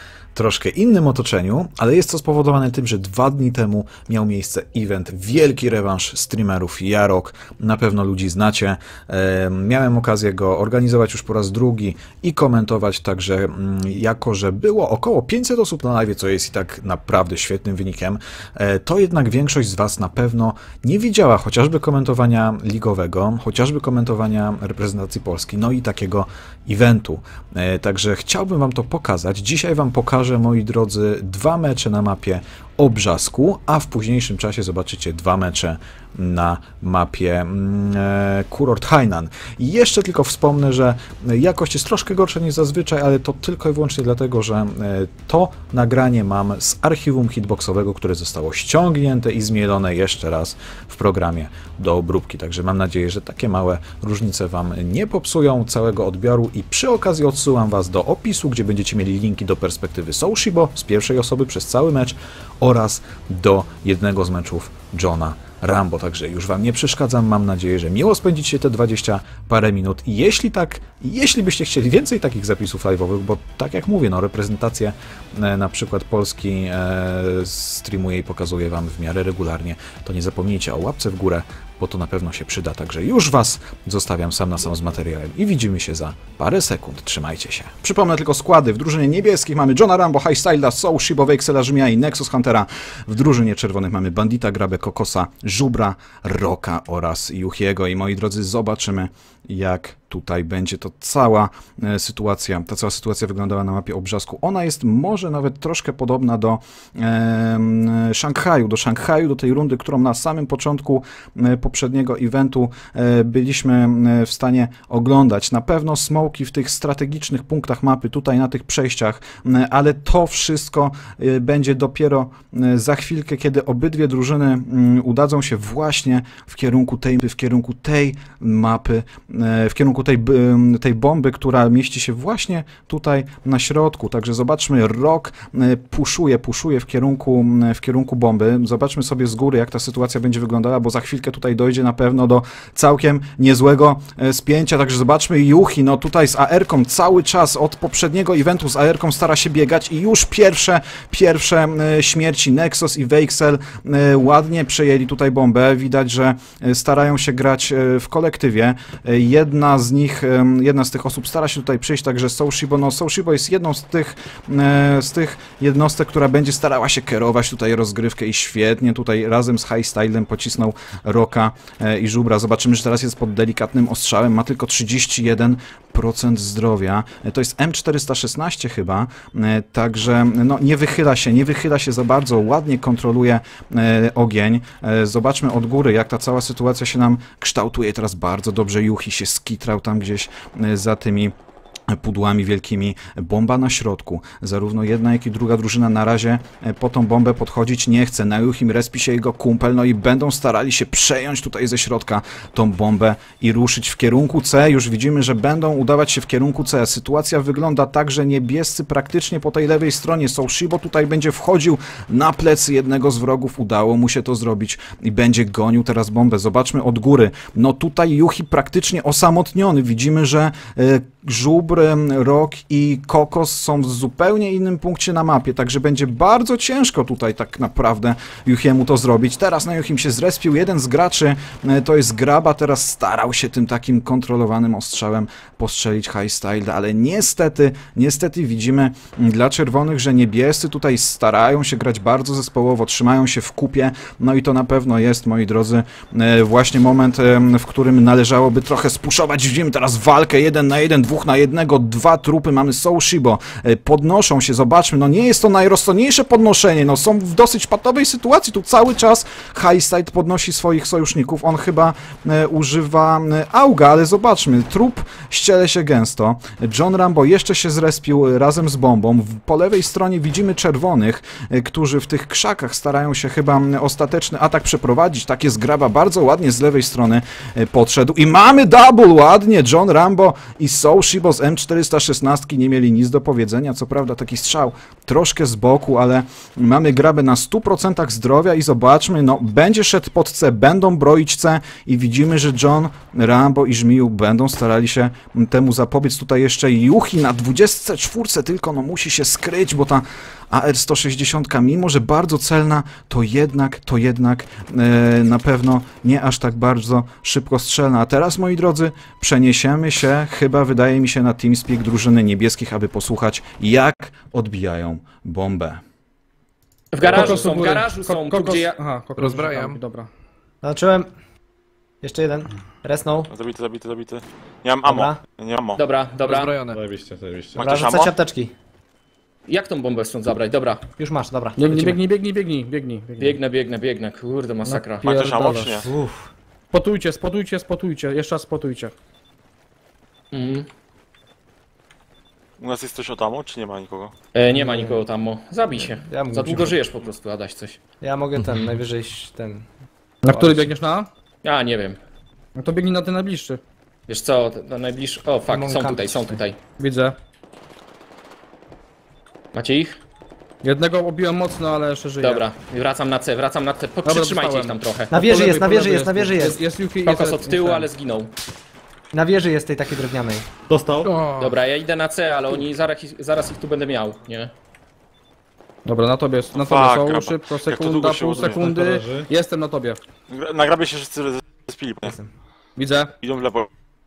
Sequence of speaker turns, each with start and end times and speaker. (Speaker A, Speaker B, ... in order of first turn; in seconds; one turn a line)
Speaker A: 0.3-191.3
Speaker A: 191.9-315.8
Speaker B: 316.9-318.8
Speaker C: 317.0-320.1
Speaker D: 319.2-319.8
Speaker E: 320.6-321.1
Speaker E: 322.0-323.3
Speaker F: 323.3-325.8
Speaker E: 324.8-325.2
Speaker B: 325.8-326.5
Speaker D: 326.2-326.8
Speaker G: 326.7-327.6
Speaker F: 327.6-328.1
Speaker E: 327.6-328.5
Speaker B: 329.5-330.8
Speaker E: 331.0-332.0
Speaker C: 331.6-333.4
Speaker B: 333.2-335.1
Speaker C: 334.6-335.8
Speaker F: 335.0-335.9
Speaker E: 335.8-336.3
Speaker C: 336.7-338.9
Speaker B: 340.3-340.7
Speaker F: 342.6-344.1
Speaker B: 344.3-347.8
Speaker E: 344.5-345.0
Speaker E: 345.8-346.8
Speaker E: 348.0-349.6
Speaker C: 350.2-351.1
Speaker E: 350.3-350.6
Speaker B: 351.4-352.0
Speaker C: 352.6-353.6
Speaker B: 354.1-356.6
Speaker E: 355.5-356.4
Speaker C: 356.7-357.2
Speaker B: 359.5-360.0
Speaker C: 360.6-362.4
Speaker B: 362.2-365.2
Speaker C: 364.0-367.9
Speaker E: 365.1-366.6
Speaker B: 367.0-368.3
Speaker E: 369.1-370.5
Speaker G: 370.7-371.1
Speaker D: 371.1-371.6
Speaker B: 371.4-374.5
Speaker C: 375.9-380.0
Speaker F: 376.5-378.7
Speaker G: 378.6-379.3
Speaker F: 380.3-382.1
Speaker E: 382.0-382.3
Speaker C: 382.8-383.1
Speaker F: 383.2-383.7